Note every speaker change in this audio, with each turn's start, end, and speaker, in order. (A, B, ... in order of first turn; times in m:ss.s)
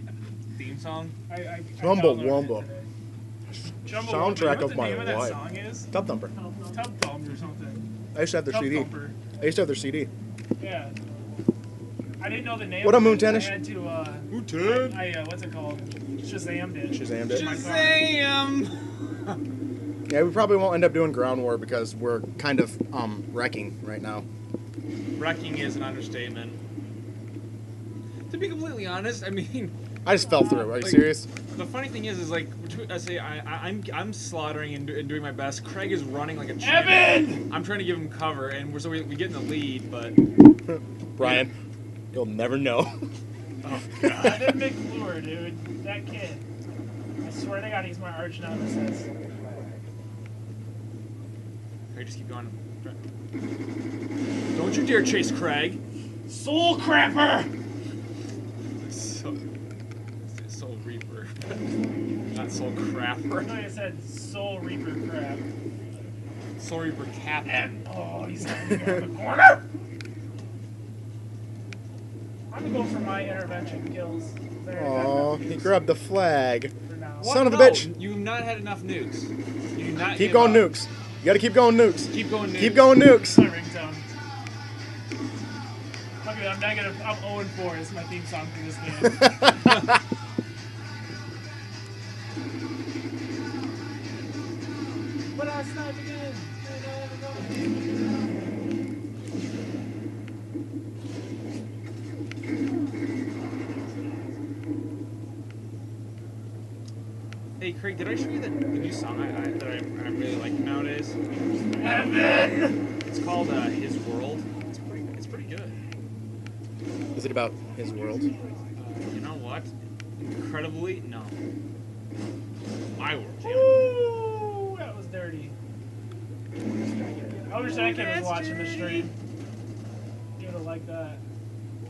0:00.5-0:01.2 A
0:01.3-0:02.9 B
0:01.8-0:02.7 C
0:03.8-0:05.9 B
0:03.8-0:06.3 C
0:06.6-0:07.8 B
0:08.1-0:10.1 C
0:08.5-0:09.2 B
0:10.6-0:11.0 B
0:12.2-0:18.2 B
0:12.8-0:13.6 C
0:14.3-0:15.1 A
0:16.9-0:17.5 C
0:17.3-0:19.4 A
0:20.1-0:24.2 C
0:25.2-0:26.6 A
0:28.3-0:29.7 A
0:30.0-0:31.3 C
0:30.2-0:30.8 B
0:30.7-0:40.2 A
0:36.6-0:37.5 B
0:41.2-0:41.5 C
0:41.2-0:41.5 A
0:42.1-0:43.0 C
0:43.6-0:44.6 A
0:44.2-0:46.4 B
0:47.2-0:49.1 B
0:51.9-0:53.0 A
0:54.5-0:55.8 A
0:56.3-0:57.5 B
0:58.8-0:59.4 A
1:00.2-1:01.6 A
1:02.3-1:03.7 A
1:03.4-1:05.5 B
1:06.6-1:07.8 A
1:07.5-1:09.6 B
1:12.5-1:15.9 B
1:14.7-1:17.9 C
1:16.9-1:17.4 B
1:17.2-1:20.7 A
1:20.1-1:23.5 C
1:22.0-1:23.0 A
1:23.1-1:24.1 B
1:26.2-1:29.4 B
1:29.2-1:29.7 C
1:35.3-1:37.7 B
1:47.6-1:51.2 A
1:51.8-1:52.8 B
1:51.8-1:52.1 A
1:53.1-1:55.8 A
1:57.2-1:58.3 C
1:58.8-2:01.4 A
2:03.0-2:03.9 A
2:03.4-2:05.6 B
2:07.5-2:09.1 B
2:07.5-2:09.1 A
2:10.4-2:11.2 B